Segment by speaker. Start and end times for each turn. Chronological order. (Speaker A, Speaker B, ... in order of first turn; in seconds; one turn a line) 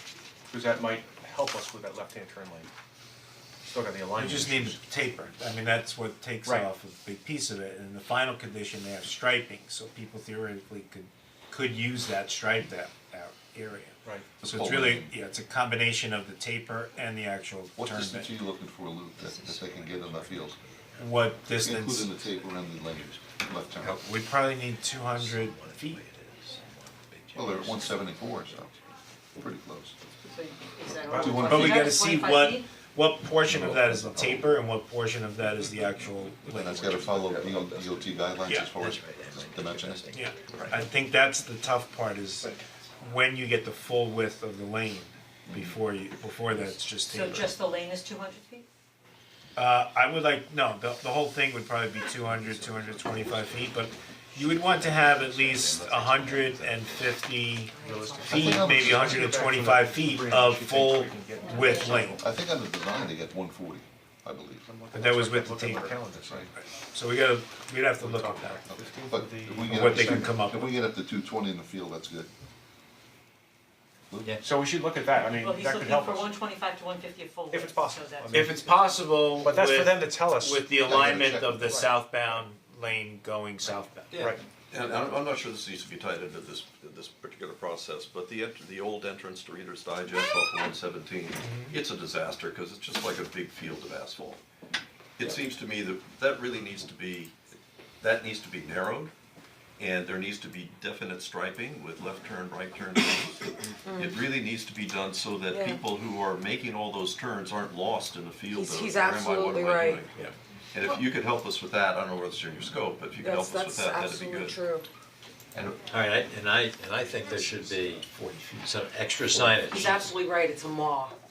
Speaker A: 0.5-2.7
Speaker A: 3.7-4.8
Speaker B: 4.2-18.3
Speaker A: 6.4-6.7
Speaker A: 14.0-14.4
Speaker C: 14.4-15.1
Speaker C: 17.8-20.6
Speaker B: 21.0-22.2
Speaker C: 21.6-24.0
Speaker B: 23.8-26.0
Speaker D: 25.1-28.1
Speaker C: 27.3-28.7
Speaker C: 29.3-30.0
Speaker E: 30.2-32.7
Speaker C: 30.8-31.8
Speaker A: 31.1-31.4
Speaker B: 31.4-37.0
Speaker C: 33.5-34.4
Speaker C: 36.5-40.1
Speaker F: 37.2-37.6
Speaker B: 38.5-38.8
Speaker D: 38.8-40.3
Speaker B: 40.1-47.5
Speaker E: 47.1-48.6
Speaker B: 49.6-62.2
Speaker C: 52.6-53.0
Speaker G: 57.7-58.5
Speaker A: 57.8-62.3
Speaker C: 58.2-59.2
Speaker C: 62.2-64.7
Speaker A: 64.7-66.6
Speaker B: 64.9-66.0
Speaker C: 66.1-66.5
Speaker B: 66.8-68.7
Speaker A: 68.0-70.4
Speaker C: 68.7-72.3
Speaker B: 69.7-70.7
Speaker C: 74.1-74.4
Speaker A: 74.4-76.3
Speaker E: 75.3-78.7
Speaker A: 77.5-80.7
Speaker B: 78.3-84.2
Speaker C: 80.8-81.8
Speaker A: 81.6-81.9
Speaker A: 84.1-84.4
Speaker F: 84.7-94.4
Speaker B: 91.4-91.8
Speaker F: 95.2-97.3
Speaker F: 98.0-99.1
Speaker F: 99.8-114.6
Speaker G: 103.8-104.2
Speaker G: 105.5-105.8
Speaker G: 108.5-110.1
Speaker G: 113.2-114.9
Speaker F: 115.5-115.8
Speaker D: 115.9-118.0
Speaker F: 117.1-117.8
Speaker D: 118.6-119.9
Speaker G: 119.7-121.2